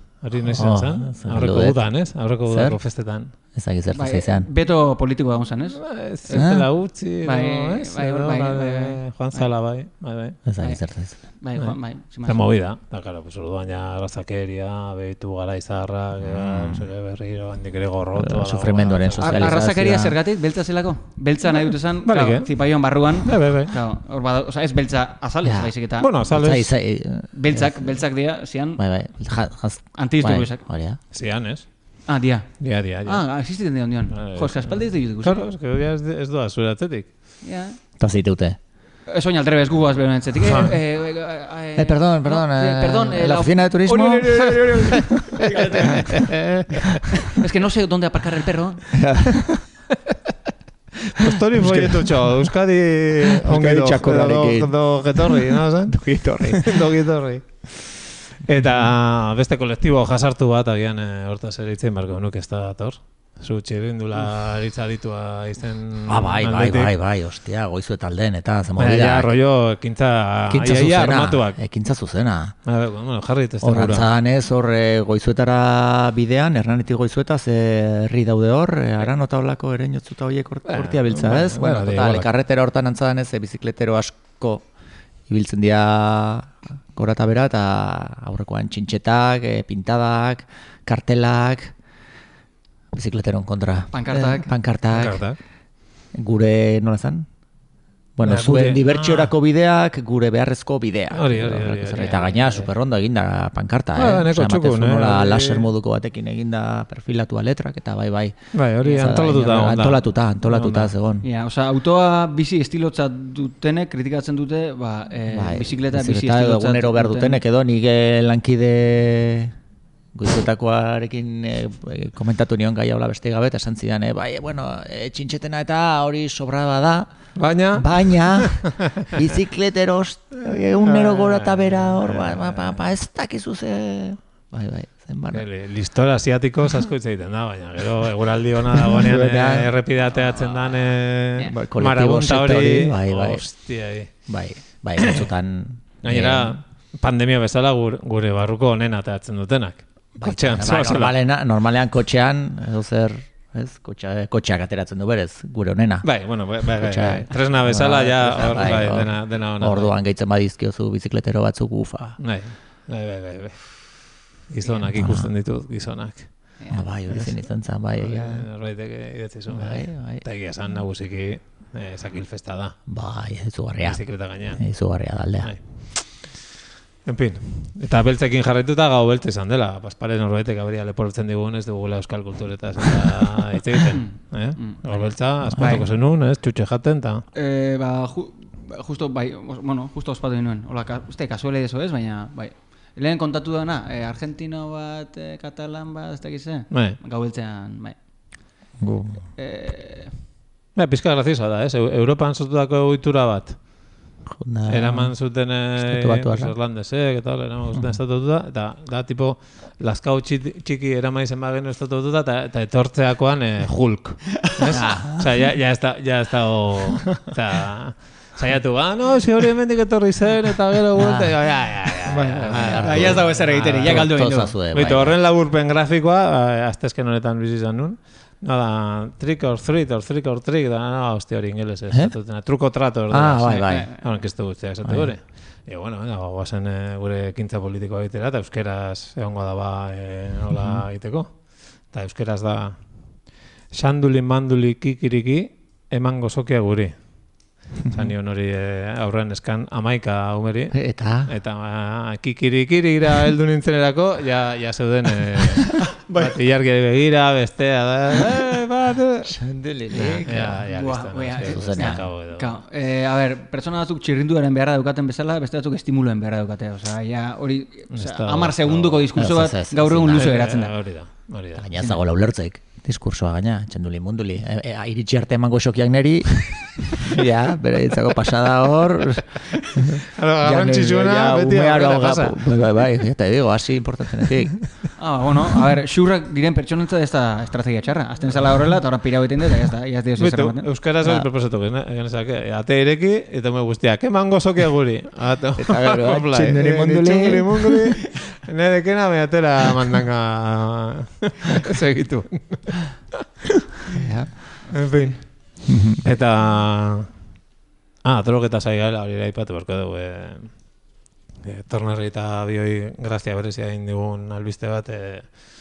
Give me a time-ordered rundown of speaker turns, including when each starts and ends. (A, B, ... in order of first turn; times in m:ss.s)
0:00.2-0:03.3 A
0:00.5-0:01.8 B
0:02.5-0:02.8 B
0:03.5-0:04.5 B
0:03.9-0:06.5 C
0:05.8-0:10.4 A
0:06.3-0:06.7 B
0:07.2-0:09.5 C
0:10.4-0:11.2 B
0:10.6-0:12.5 C
0:12.2-0:19.6 A
0:16.2-0:16.9 B
0:18.2-0:20.1 B
0:19.2-0:26.1 C
0:22.0-0:22.5 A
0:23.2-0:23.7 A
0:25.4-0:25.7 B
0:26.0-0:26.7 A
0:26.3-0:27.9 B
0:27.3-0:28.8 C
0:28.8-0:31.0 B
0:29.9-0:30.6 C
0:31.1-0:31.7 A
0:32.1-0:35.4 C
0:32.6-0:33.2 A
0:34.1-0:37.1 A
0:37.4-0:37.8 C
0:38.0-0:38.6 B
0:39.1-0:46.2 C
0:40.4-0:40.7 A
0:41.8-0:45.4 B
0:46.1-0:47.0 A
0:47.2-0:48.9 C
0:48.9-0:49.6 B
0:51.1-1:06.9 A
0:51.2-0:52.3 B
0:53.3-0:56.8 B
1:06.1-1:09.3 B
1:08.8-1:11.6 A
1:10.5-1:12.5 B
1:12.6-1:14.1 A
1:13.6-1:24.6 B
1:20.7-1:22.3 A
1:25.3-1:31.7 B
1:32.9-1:35.2 B
1:33.9-1:34.5 C
1:34.9-1:35.4 A
1:36.1-1:37.3 B
1:38.2-1:51.2 B
1:38.2-1:39.3 A
1:41.1-1:42.2 A
1:42.0-1:42.4 C
1:43.9-1:45.7 A
1:48.5-1:50.9 A
1:51.2-1:57.4 C
1:55.3-1:59.5 B
2:00.1-2:07.1 B
2:07.4-2:09.2 A
2:07.7-2:15.4 B
2:10.8-2:12.8 A
2:15.3-2:24.1 A
2:18.8-2:19.7 B
2:21.5-2:23.4 B
2:24.3-2:26.6 B
2:25.0-2:25.2 A
2:26.0-2:31.1 A
2:30.2-2:36.1 B
2:36.0-2:39.9 A
2:36.8-2:42.2 B
2:42.2-2:43.6 A
2:44.5-2:46.5 A
2:44.9-2:45.3 B
2:46.7-2:48.4 B
2:48.0-2:52.8 A
2:49.5-2:50.2 B
2:52.9-2:54.0 B
2:53.8-2:54.6 A
2:54.5-2:55.5 B
2:57.0-3:07.2 A
3:03.9-3:05.9 C
3:05.5-3:05.8 B
3:07.3-3:18.0 C
3:16.7-3:17.0 A
3:18.8-3:19.2 B
3:19.4-3:20.1 C
3:20.8-3:23.6 A
3:24.3-3:25.1 B
3:24.7-3:44.1 A
3:25.8-3:26.5 B
3:34.5-3:34.7 C
3:34.7-3:35.2 B
3:41.0-3:41.4 B
3:42.0-3:45.2 B
3:42.8-3:44.5 C
3:44.7-4:01.3 A
3:53.1-3:53.9 B
3:53.4-3:54.0 C
3:54.8-3:55.1 B
4:00.5-4:00.8 B
4:01.9-4:02.8 A
4:03.7-4:06.9 A
4:07.9-4:19.3 A
4:10.7-4:11.3 B
4:19.2-4:20.6 B
4:19.9-4:30.7 C
4:20.2-4:22.5 A
4:21.4-4:22.1 B
4:27.9-4:29.0 A
4:29.1-4:30.4 B
4:30.1-4:31.7 A
4:31.6-4:44.6 B
4:39.9-4:42.4 A
4:45.0-4:50.7 C
4:50.2-5:02.9 A
4:51.0-4:51.3 B
4:55.6-4:57.9 B
5:03.9-5:04.3 B
5:04.7-5:05.2 A
5:05.6-5:06.1 B
5:06.0-5:07.1 A
5:08.0-5:10.5 A
5:11.4-5:15.3 A